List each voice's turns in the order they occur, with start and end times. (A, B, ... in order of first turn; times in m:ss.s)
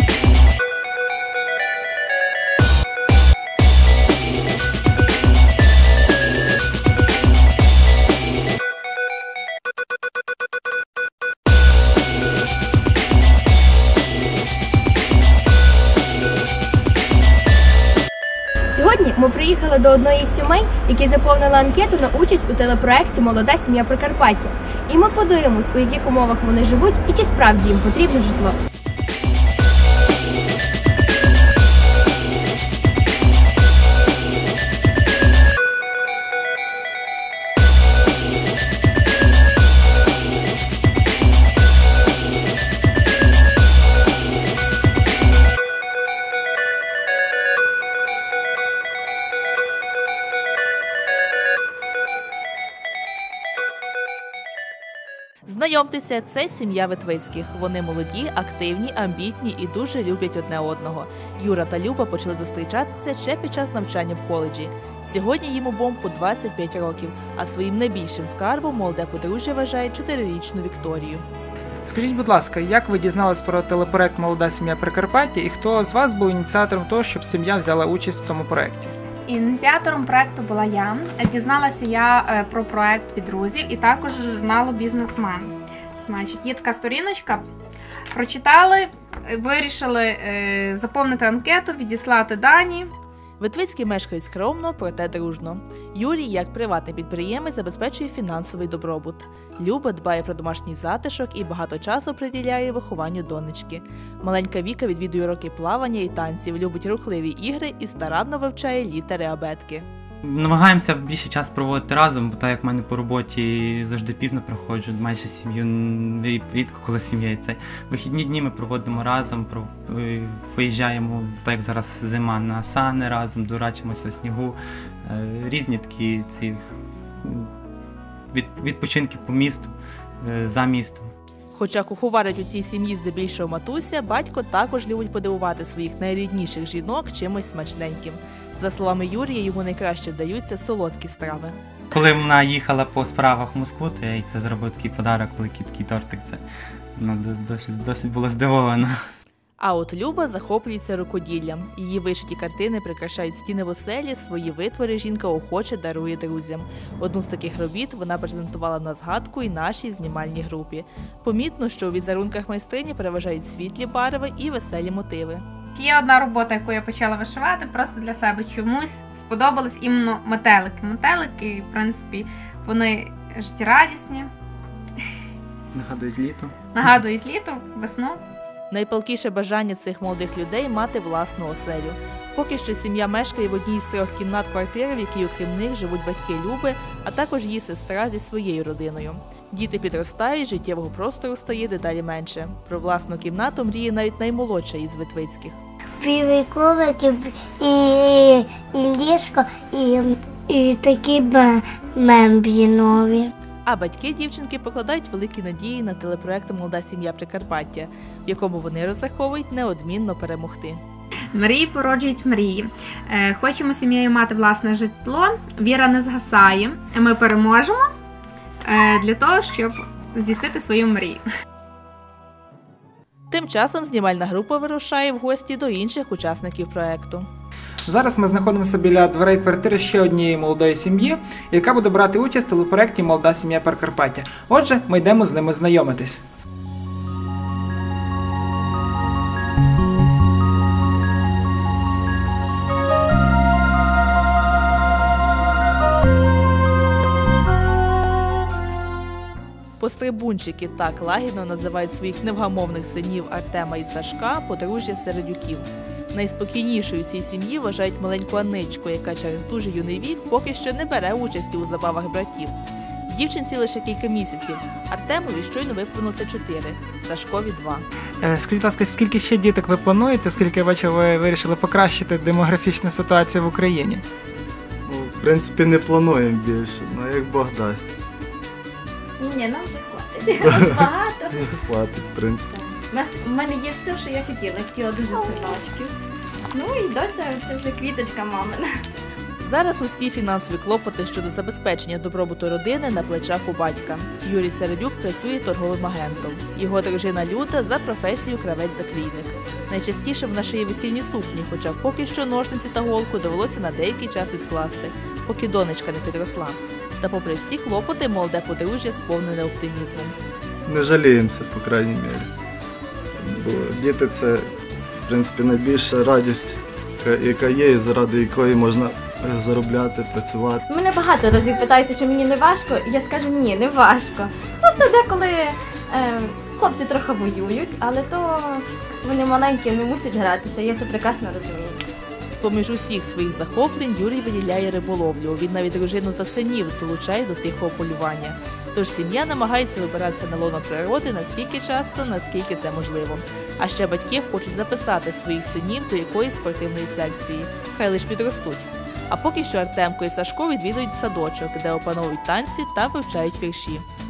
0:18.7-0:28.6 A
0:55.5-1:11.2 B
1:11.8-1:18.9 C
1:19.3-1:27.5 D
1:28.1-1:32.9 D
1:33.4-1:49.9 B
1:50.2-2:06.6 E
2:07.2-2:07.5 E
2:08.3-2:11.1 E
2:11.5-2:21.6 B
2:21.9-2:26.4 E
2:27.0-2:29.0 E
2:29.6-2:45.4 B
2:45.8-2:54.3 D
2:55.7-2:56.5 E
2:56.7-2:58.2 D
2:58.7-3:15.6 B
3:16.0-3:23.3 F
3:23.6-3:30.8 B
3:31.3-3:37.9 D
3:38.6-3:41.2 D
3:43.3-3:47.3 B
3:47.8-3:56.2 C
4:09.8-4:22.6 B
4:23.1-4:27.9 B
4:28.2-4:34.0 C
4:34.9-4:37.9 G
4:39.2-4:41.4 H
4:41.4-4:42.5 G
4:42.9-4:45.9 H
4:46.5-4:48.7 H
4:49.4-5:10.1 B
5:10.6-5:12.3 G
5:13.2-5:14.5 G
5:15.1-5:20.6 G
5:20.7-5:31.8 H
5:32.3-5:53.8 B